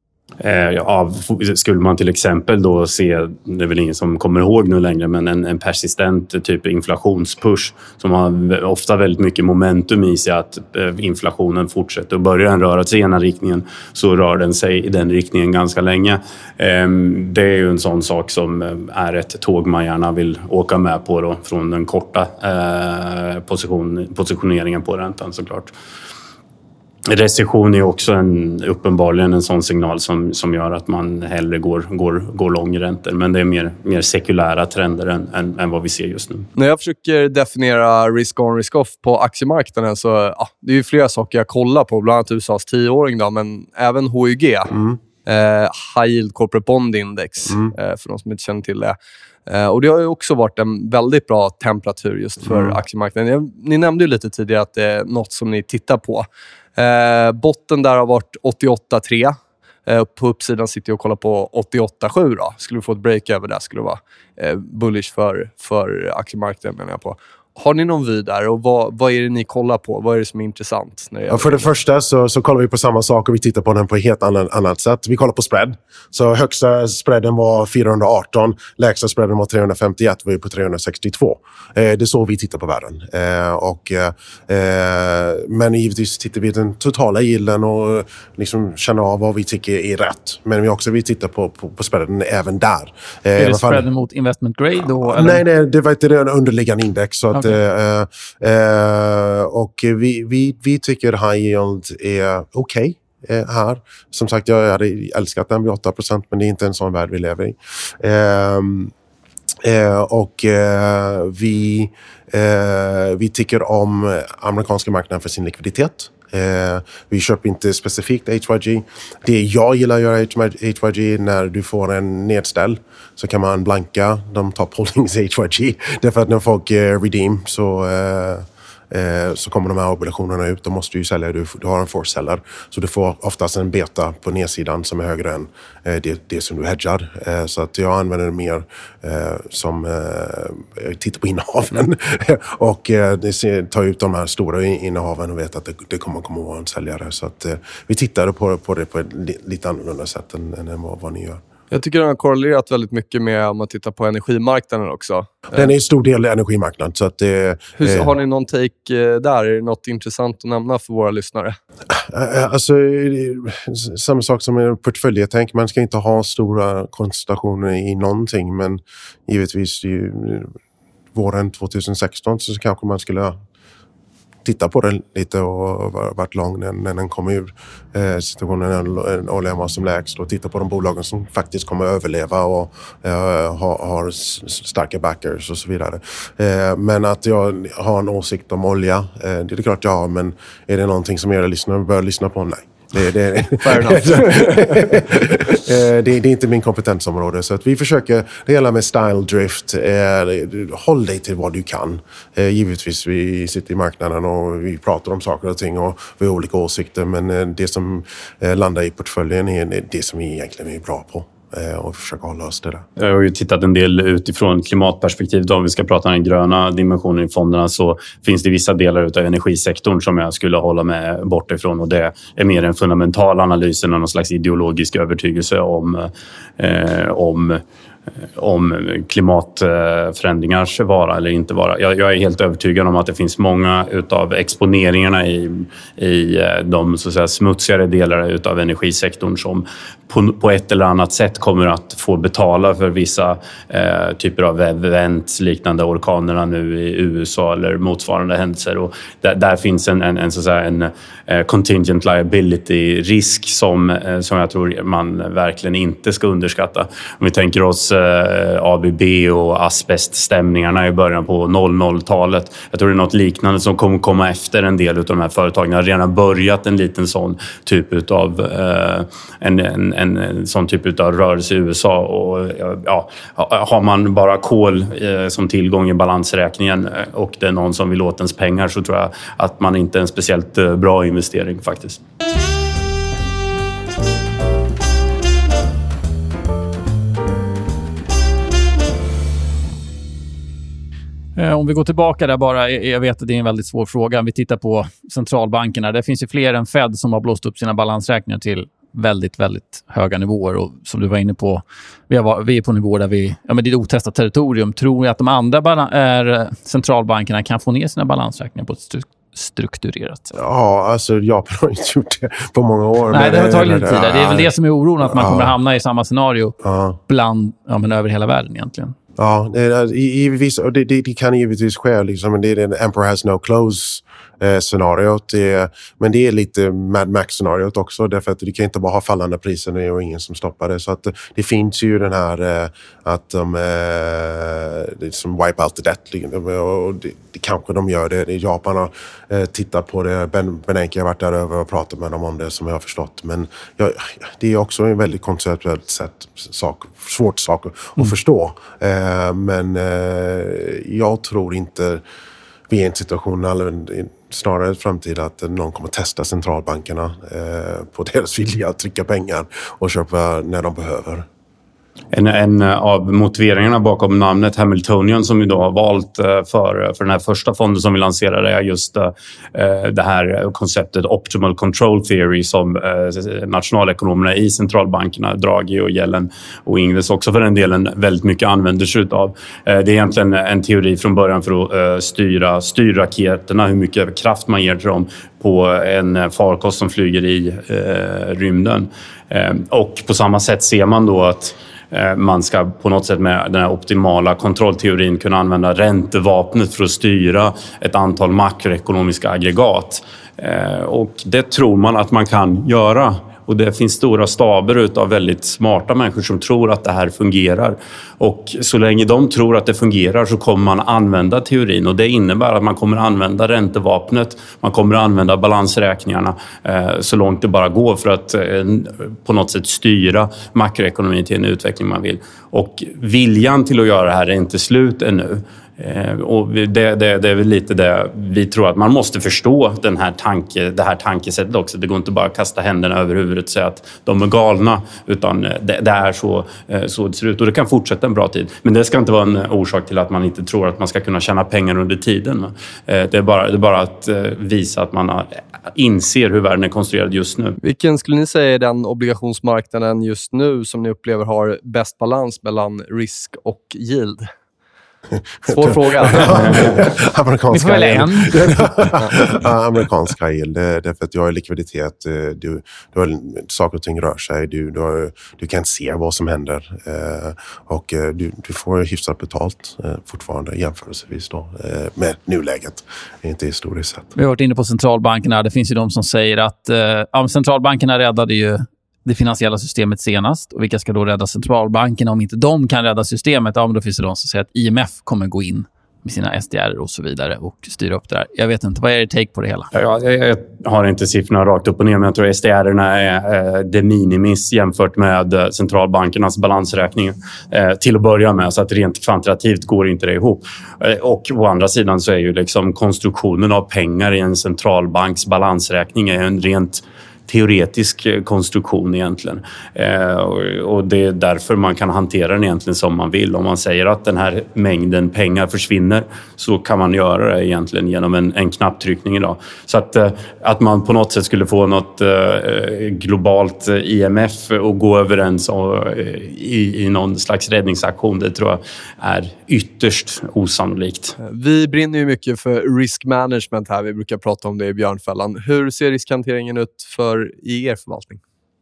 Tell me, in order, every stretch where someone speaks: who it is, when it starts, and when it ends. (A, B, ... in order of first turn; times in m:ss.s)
0:00.4-0:25.7 A
0:27.1-0:36.5 A
0:36.6-0:49.0 B
0:49.5-1:11.7 B
1:11.3-1:33.8 C
1:33.4-1:35.4 D
1:35.0-1:48.9 C
1:49.6-2:31.4 C
2:31.7-2:35.6 B
2:35.5-2:38.1 C
2:37.8-2:41.6 B
2:41.9-2:50.5 C
2:51.1-2:53.4 C
2:54.4-3:32.8 C
3:13.6-3:15.0 B
3:33.0-3:47.6 A
3:48.4-4:42.0 A
4:51.4-5:10.3 D
5:10.3-5:14.5 C
5:13.1-5:16.6 D
5:15.0-5:15.6 C
5:16.6-5:17.0 C
5:17.1-5:18.9 D
5:19.2-5:52.0 C
5:52.7-6:01.2 C
6:02.1-7:27.6 A
7:27.6-7:34.3 B
7:35.4-7:54.1 C
7:35.4-7:36.8 B
7:37.5-7:38.7 D
7:54.1-8:09.7 D
8:09.7-8:51.2 A
8:51.2-8:58.2 B